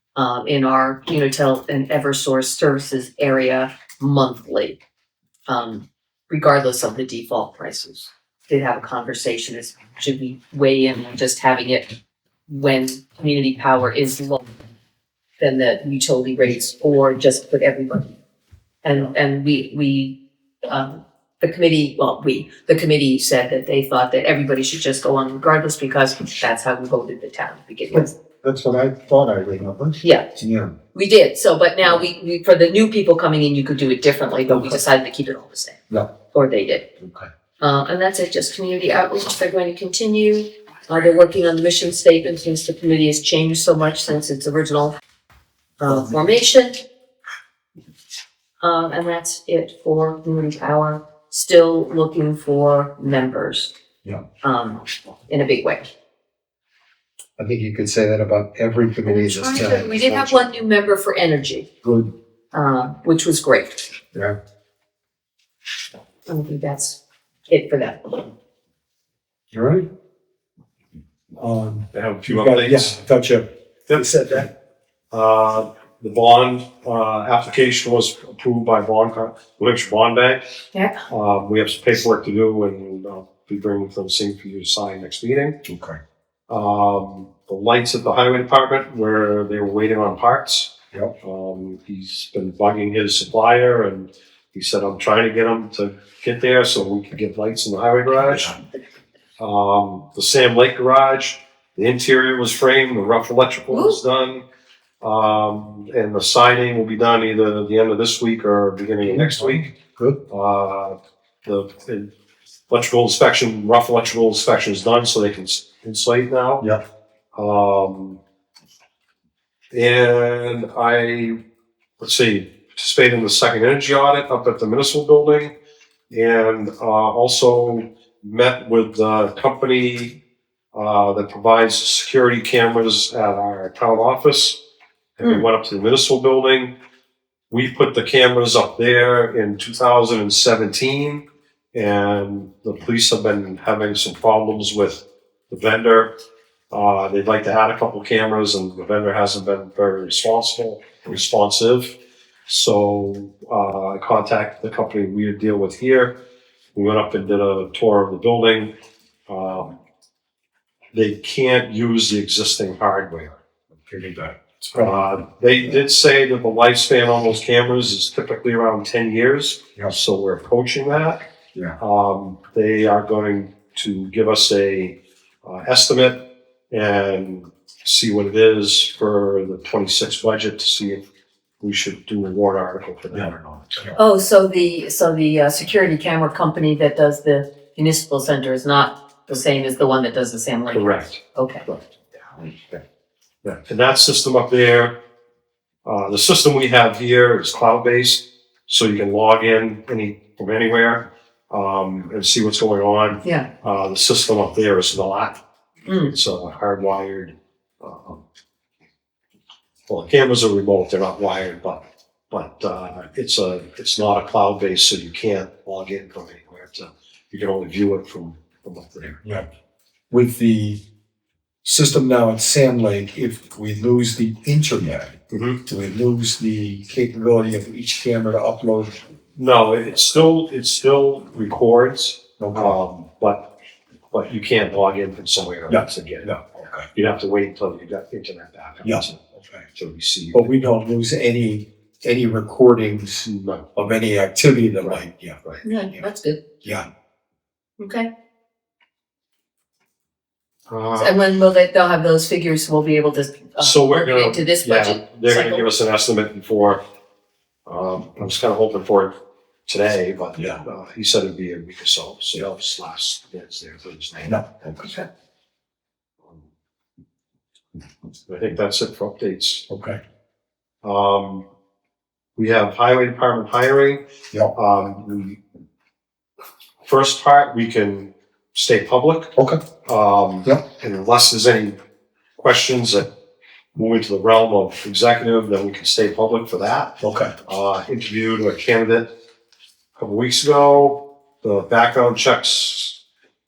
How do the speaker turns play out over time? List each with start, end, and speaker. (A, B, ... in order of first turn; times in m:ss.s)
0:00.2-0:04.8 A
0:05.5-0:12.0 A
0:12.5-0:14.4 A
0:15.4-0:18.2 A
0:18.8-0:28.1 A
0:27.9-0:30.8 B
0:30.0-0:30.3 A
0:30.9-0:35.8 A
0:36.3-0:36.9 A
0:37.0-0:37.3 B
0:37.6-0:45.0 A
0:45.8-0:46.8 A
0:48.6-0:53.7 A
0:54.4-0:55.9 A
0:57.4-1:00.5 B
0:59.1-1:01.7 A
1:01.8-1:02.1 B
1:02.5-1:03.9 A
1:06.3-1:08.3 A
1:09.5-1:09.9 B
1:11.4-1:14.5 B
1:11.9-1:13.0 C
1:15.1-1:20.5 C
1:20.7-1:21.0 A
1:21.1-1:25.6 C
1:25.6-1:26.0 B
1:26.5-1:38.6 C
1:39.4-1:44.4 C
1:43.7-1:44.0 A
1:45.0-1:49.7 C
1:49.0-1:50.2 B
1:50.3-1:52.1 C
1:52.7-1:56.7 C
1:57.3-1:58.2 C
1:59.7-2:01.4 C
2:02.0-2:05.5 C
2:06.1-2:10.2 C
2:10.7-2:14.6 C
2:15.2-2:16.8 C
2:17.5-2:26.2 C
2:26.7-2:32.0 C
2:32.5-2:36.2 C
2:36.8-2:38.7 C
2:39.3-2:39.8 C
2:40.9-2:43.4 C
2:43.9-2:45.0 B
2:44.8-2:51.3 C
2:51.8-3:01.0 C
3:01.6-3:03.9 C
3:04.0-3:11.6 A
3:10.7-3:11.8 C
3:13.4-3:15.0 C
3:15.8-3:25.4 C
3:23.2-3:23.5 A
3:25.9-3:26.1 A
3:26.1-3:28.2 C
3:29.9-3:39.2 C
3:40.1-3:40.8 B
3:41.6-3:49.0 B
3:45.3-3:45.6 C
3:49.4-3:53.5 C
3:52.4-3:52.8 B
3:54.1-3:56.3 C
3:55.7-3:56.9 B
3:57.0-3:59.2 C
3:58.8-3:59.7 B
3:59.8-4:00.5 C
4:00.3-4:06.0 B
4:03.2-4:03.7 C
4:04.8-4:05.6 C
4:05.6-4:06.4 A
4:07.8-4:08.1 A
4:10.7-4:11.2 C
4:11.0-4:15.7 A
4:13.6-4:16.8 C
4:17.7-4:19.2 C
4:19.7-4:24.9 C
4:24.3-4:24.9 B
4:28.3-4:29.6 C
4:29.7-4:30.0 B
4:30.8-4:31.4 C
4:32.4-4:35.4 C
4:36.8-4:39.3 C
4:39.4-4:39.6 B
4:39.8-4:41.8 C
4:42.4-4:43.1 C
4:43.8-4:49.1 C
4:47.0-4:47.3 B
4:50.0-4:53.0 C